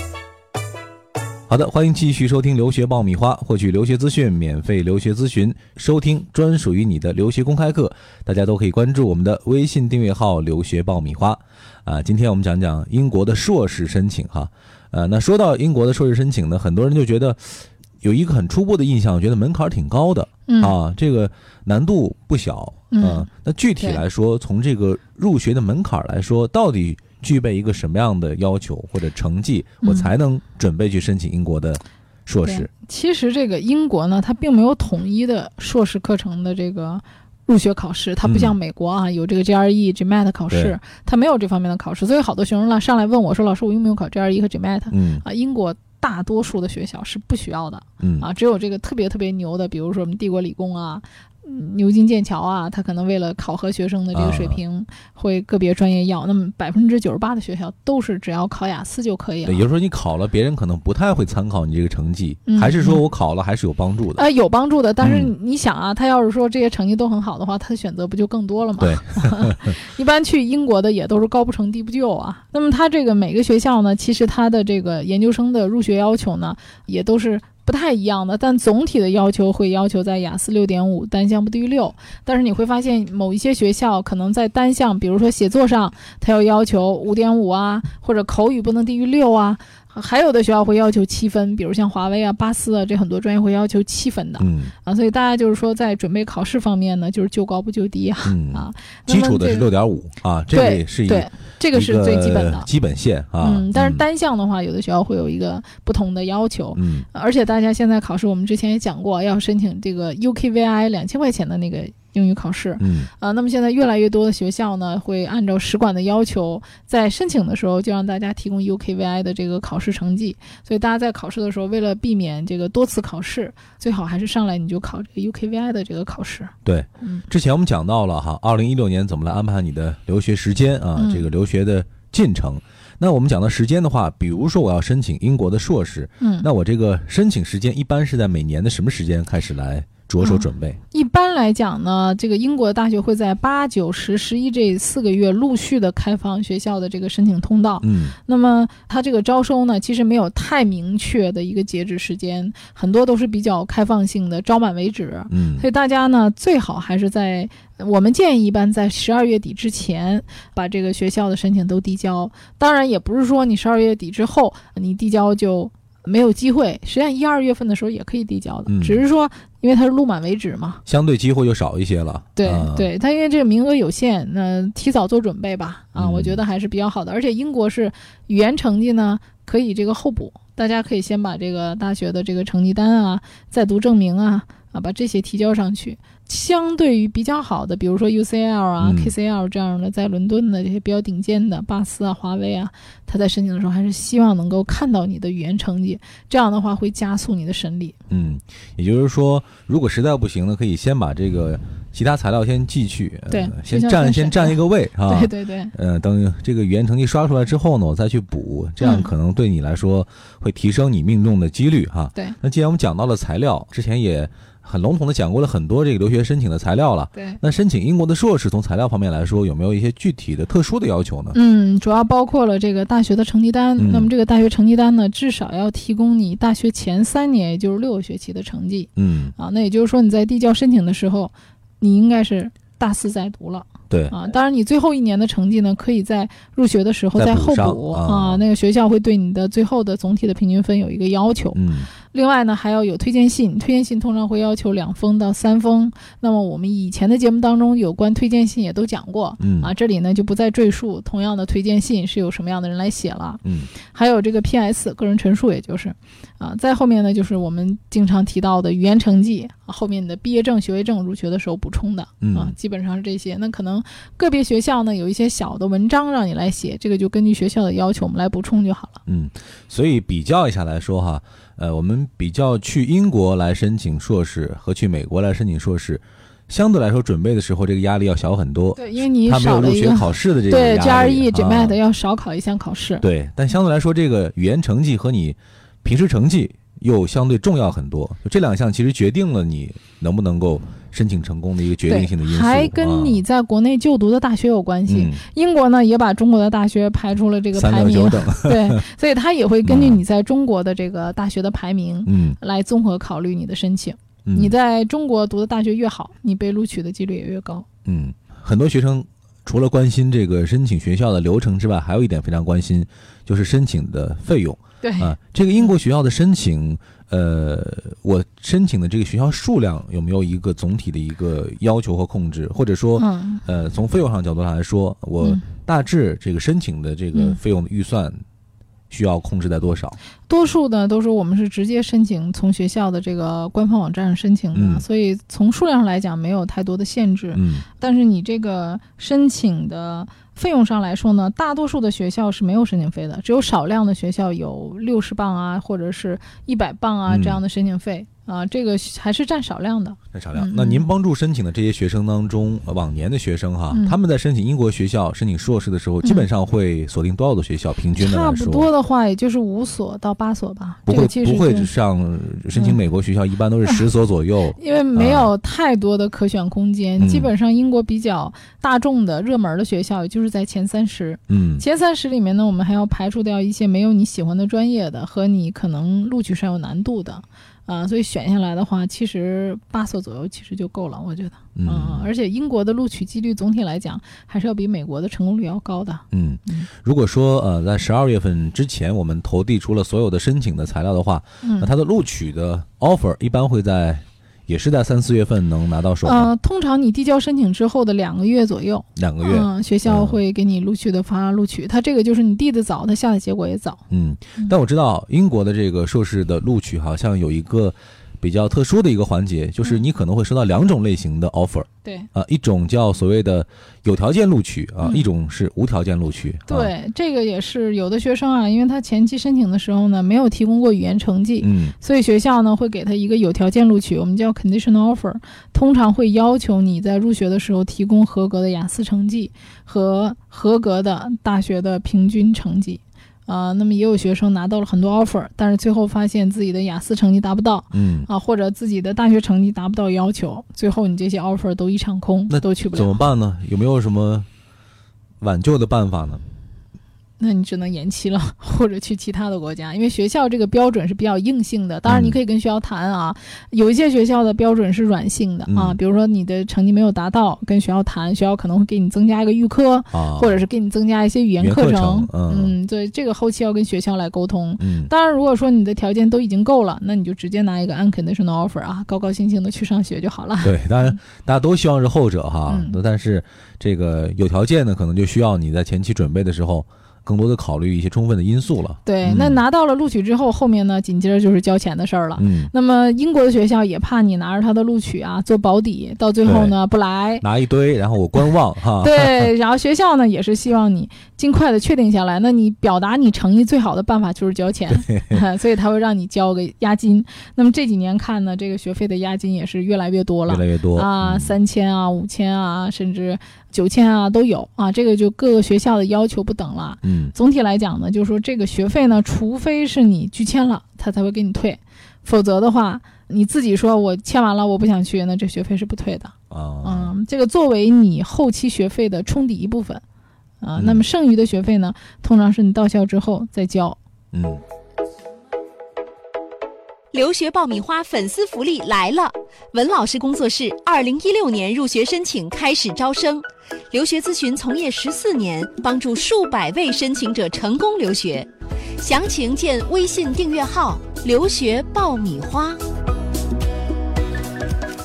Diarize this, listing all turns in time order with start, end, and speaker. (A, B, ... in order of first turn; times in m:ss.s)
0:01.5-0:32.7 A
0:20.5-0:20.8 B
0:22.9-0:23.3 B
0:29.8-0:30.1 B
0:32.4-0:59.6 B
0:38.2-0:38.6 A
0:40.5-0:40.8 A
0:44.9-0:45.2 A
0:48.0-0:48.3 A
0:54.1-0:54.6 A
0:59.4-1:04.2 A
1:02.5-1:03.0 B
1:04.2-1:39.7 B
1:05.0-1:05.3 A
1:08.8-1:09.7 A
1:34.4-1:34.7 A
1:38.2-1:44.0 A
1:40.5-1:42.7 B
1:43.4-2:07.3 B
1:46.8-1:47.1 A
1:52.8-1:53.1 A
2:06.6-2:20.8 A
2:11.0-2:11.3 B
2:16.2-2:16.5 B
2:20.2-2:50.8 B
2:27.8-2:28.2 A
2:35.3-2:35.7 A
2:48.7-2:49.0 A
2:50.9-2:52.9 A
2:52.4-3:18.0 B
2:56.0-2:56.4 A
3:08.8-3:09.1 A
3:18.1-3:41.4 A
3:23.3-3:25.7 B
3:28.8-3:29.1 B
3:37.2-3:37.4 B
3:41.3-4:29.0 B
3:43.8-3:44.1 A
3:49.0-3:49.4 A
3:53.9-3:54.2 A
3:57.2-3:58.4 A
4:01.6-4:01.9 A
4:09.4-4:09.7 A
4:13.4-4:13.7 A
4:22.2-4:22.5 A
4:29.1-4:41.8 A
4:38.8-4:43.0 B
4:43.0-4:53.2 A
4:51.8-5:07.7 B
4:54.9-4:55.2 A
4:57.6-4:58.8 A
4:59.7-5:00.0 A
5:02.1-5:02.4 A
5:04.3-5:04.6 A
5:07.8-5:28.2 A
5:14.8-5:15.7 B
5:23.0-5:23.4 B
5:27.1-5:27.4 B
5:28.9-5:30.0 A
5:30.3-5:50.9 B
5:34.6-5:34.8 A
5:37.3-5:37.6 A
5:47.1-5:47.4 A
5:50.1-5:58.7 A
5:53.7-5:54.0 B
5:58.0-6:01.7 B
6:00.9-6:05.3 A
6:02.5-6:02.8 B
6:04.6-6:26.7 B
6:07.0-6:07.3 A
6:11.3-6:11.6 A
6:21.6-6:22.1 A
6:26.1-6:36.3 A
6:31.4-6:31.7 B
6:36.0-6:43.8 B
6:39.0-6:40.2 A
6:43.9-6:56.7 A
6:54.8-6:55.1 B
6:56.5-7:23.0 B
7:01.4-7:01.8 A
7:17.7-7:18.1 A
7:22.3-7:24.3 A
7:25.2-7:26.2 A
7:27.2-7:51.0 B
7:31.9-7:32.2 A
7:35.5-7:35.8 A
7:39.9-7:40.4 A
7:41.4-7:42.6 A
7:44.6-7:44.9 A
7:50.4-7:59.4 A
7:52.5-7:52.8 B
7:58.8-8:07.2 B
8:02.2-8:02.5 A
8:06.2-8:06.6 A
8:07.2-8:09.3 A
8:08.8-8:39.8 B
8:14.9-8:15.2 A
8:20.3-8:21.4 A
8:26.8-8:27.1 A
8:36.3-8:36.9 A
8:40.4-8:43.8 B
8:40.6-8:40.8 A
8:44.1-8:44.4 A
8:46.9-9:02.6 C